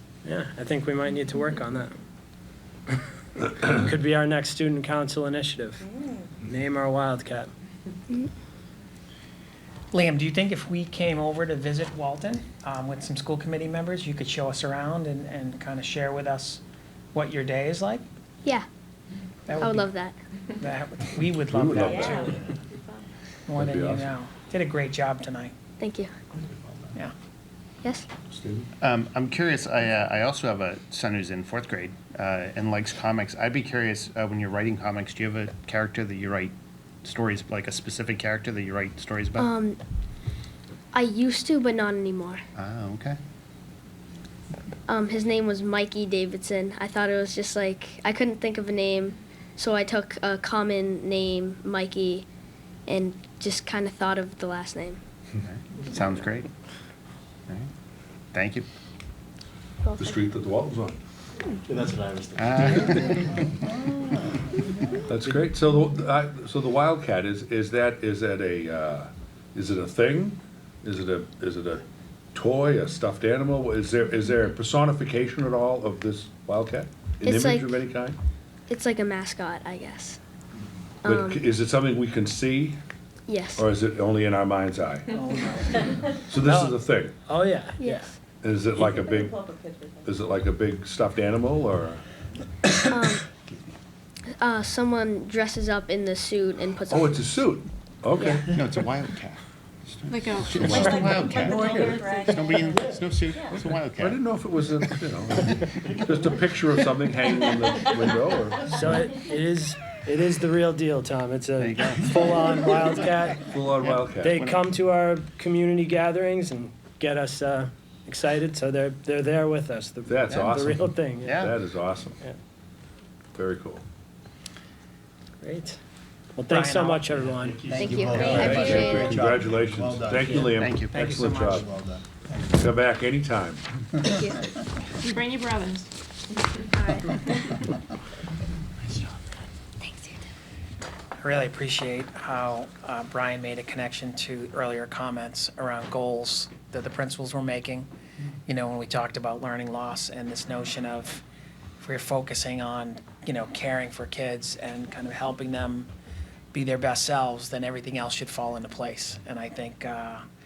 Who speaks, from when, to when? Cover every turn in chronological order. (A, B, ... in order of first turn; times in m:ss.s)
0:00.2-0:01.9 A
0:03.5-0:05.8 A
0:06.4-0:07.5 A
0:09.9-0:16.6 B
0:17.1-0:18.0 B
0:19.5-0:19.9 B
0:19.6-0:20.2 C
0:20.6-0:22.5 B
0:21.4-0:22.3 D
0:21.8-0:23.1 E
0:23.5-0:25.5 B
0:23.6-0:24.1 D
0:25.8-0:26.1 C
0:27.8-0:28.1 C
0:28.3-0:28.7 D
0:28.8-0:39.5 F
0:39.4-0:39.8 C
0:40.9-0:42.4 C
0:42.6-0:43.2 F
0:44.9-0:52.2 C
0:52.9-0:55.0 C
0:55.4-0:56.5 F
0:58.3-0:58.7 F
0:59.8-1:00.2 C
1:00.0-1:01.0 D
1:01.7-1:03.1 G
1:02.4-1:04.0 F
1:05.1-1:11.8 D
1:12.3-1:18.2 D
1:17.2-1:17.8 C
1:18.7-1:20.2 C
1:21.0-1:21.4 C
1:21.0-1:22.8 D
1:23.3-1:23.7 C
1:23.6-1:25.1 D
1:25.1-1:26.1 B
1:26.3-1:27.1 D
1:26.4-1:28.1 A
1:27.8-1:28.2 C
1:28.4-1:29.4 D
1:28.8-1:30.2 E
1:30.0-1:32.0 D
1:32.9-1:33.3 C
1:33.4-1:33.7 F
1:34.4-1:37.4 C
1:36.9-1:38.5 D
1:38.2-1:38.4 C
1:38.4-1:44.2 F
1:40.6-1:42.8 E
1:43.3-1:43.7 E
1:44.0-1:48.7 D
1:48.6-1:53.4 A
1:51.6-1:52.2 F
1:53.5-1:54.4 D
1:53.8-1:54.6 F
1:54.2-2:01.5 A
2:00.0-2:02.2 D
2:01.2-2:01.5 F
2:03.3-2:03.8 D
2:05.4-2:05.8 A
2:06.3-2:07.6 A
2:06.5-2:07.0 B
2:07.4-2:10.6 G
2:07.7-2:09.1 C
2:08.3-2:11.7 D
2:09.0-2:09.3 F
2:10.4-2:11.0 F
2:10.9-2:11.7 B
2:11.6-2:12.6 G
2:12.6-2:13.6 D
2:14.0-2:14.4 C
2:21.2-2:27.9 B
2:28.4-2:31.2 B
2:31.8-2:35.9 B
2:36.5-2:40.2 B